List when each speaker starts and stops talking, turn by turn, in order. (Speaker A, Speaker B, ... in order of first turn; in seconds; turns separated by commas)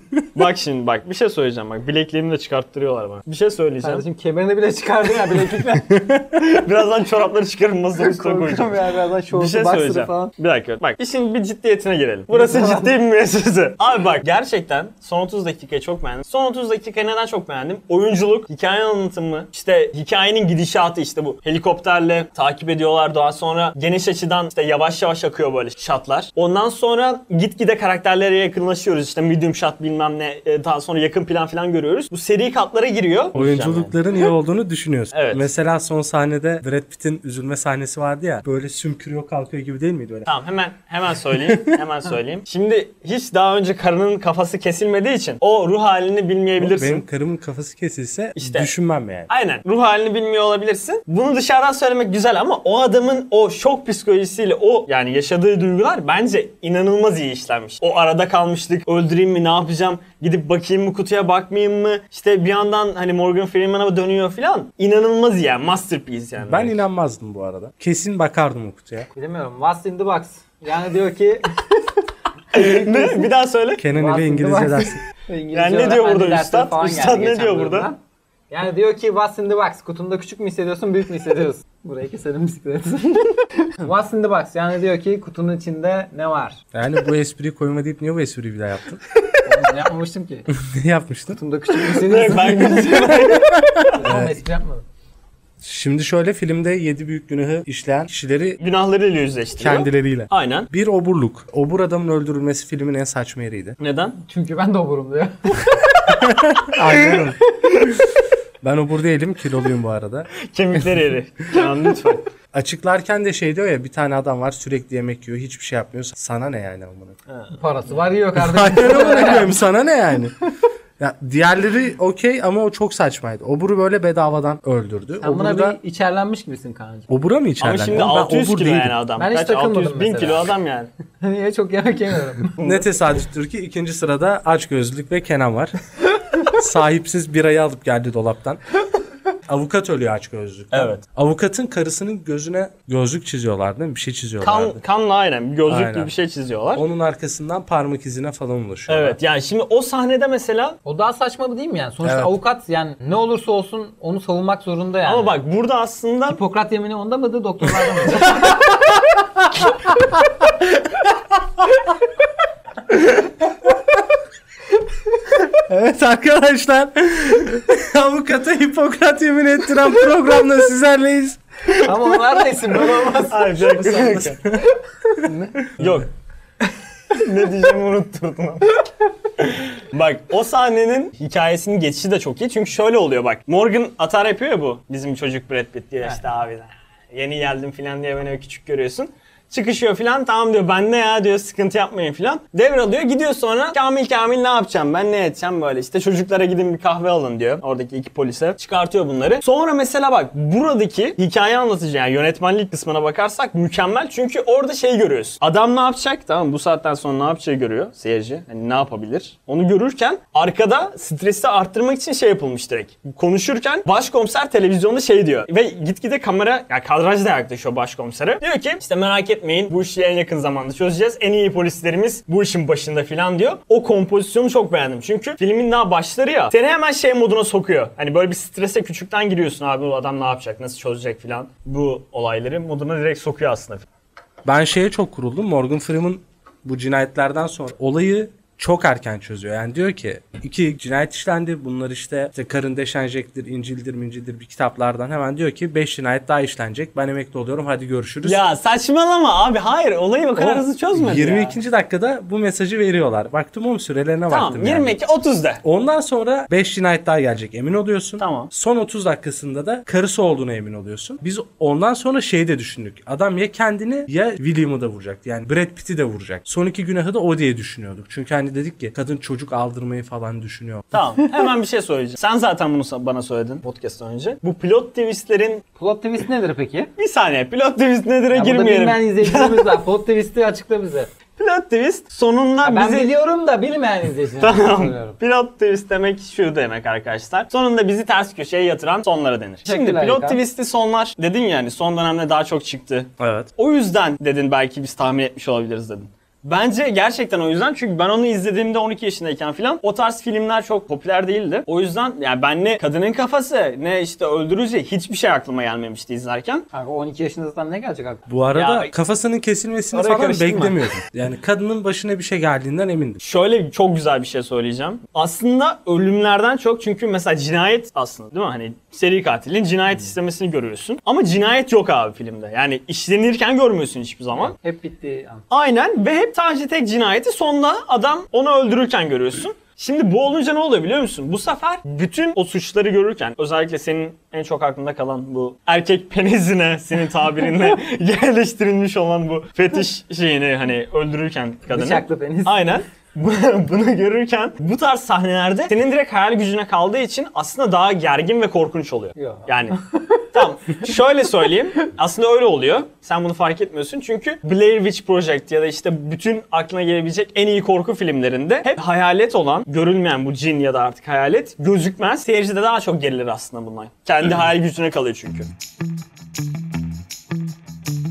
Speaker A: 0.3-4.0, Speaker B: 3.8-6.0, Speaker A: 6.3-34.0, Speaker B: 8.0-10.3, Speaker B: 12.3-12.9, Speaker C: 33.3-40.3, Speaker A: 35.1-35.4, Speaker A: 40.3-47.0, Speaker C: 41.5-41.8, Speaker C: 46.6-49.3, Speaker A: 48.4-48.7, Speaker A: 49.3-66.8, Speaker C: 66.4-69.1, Speaker B: 69.2-71.5, Speaker B: 72.5-73.3, Speaker A: 72.5-73.8, Speaker C: 73.8-75.0, Speaker B: 73.9-78.0, Speaker A: 75.5-77.9, Speaker B: 78.5-86.6, Speaker C: 86.7-89.0, Speaker B: 89.4-90.5, Speaker C: 90.5-91.4, Speaker B: 91.3-94.8, Speaker A: 91.9-94.0, Speaker C: 93.2-94.4, Speaker C: 95.6-98.6, Speaker A: 98.6-100.7, Speaker C: 99.6-103.8, Speaker A: 103.8-104.2, Speaker B: 104.2-106.2, Speaker C: 106.2-107.4, Speaker C: 108.6-110.3, Speaker A: 110.4-112.2, Speaker C: 112.5-117.2, Speaker A: 117.3-117.5, Speaker B: 117.5-119.6, Speaker C: 118.4-120.3, Speaker C: 121.0-125.8, Speaker B: 125.2-127.1, Speaker C: 127.1-128.9, Speaker A: 127.6-130.9, Speaker B: 129.2-130.5, Speaker B: 131.2-132.6, Speaker C: 132.6-135.8, Speaker C: 136.4-138.6, Speaker C: 139.5-144.8, Speaker A: 140.7-141.0, Speaker A: 144.4-146.8, Speaker C: 145.7-146.1, Speaker C: 146.8-149.2, Speaker A: 148.9-150.8, Speaker B: 150.8-155.4, Speaker C: 152.1-152.3, Speaker A: 155.1-156.4, Speaker B: 156.3-158.8, Speaker C: 158.3-158.8, Speaker C: 159.6-160.6, Speaker C: 165.5-171.4, Speaker B: 171.7-174.4, Speaker A: 173.3-174.4, Speaker B: 175.1-175.6, Speaker A: 175.8-176.1, Speaker A: 177.1-178.8, Speaker A: 179.4-233.8, Speaker C: 234.4-248.4, Speaker A: 248.2-251.6, Speaker C: 250.4-254.9, Speaker A: 254.3-255.6, Speaker C: 255.6-270.9, Speaker A: 258.2-258.5, Speaker A: 270.9-275.6, Speaker B: 275.8-276.9, Speaker A: 277.0-279.8, Speaker B: 278.3-281.1, Speaker A: 281.4-283.1, Speaker B: 282.6-285.2, Speaker A: 284.4-306.7, Speaker B: 289.6-290.4, Speaker C: 293.2-293.5, Speaker B: 306.7-308.2, Speaker C: 308.3-313.2, Speaker A: 308.5-308.9, Speaker A: 309.9-310.8, Speaker A: 313.2-324.6, Speaker B: 324.4-325.4, Speaker A: 325.5-349.8, Speaker B: 341.7-342.7, Speaker B: 349.2-350.2, Speaker A: 350.3-365.5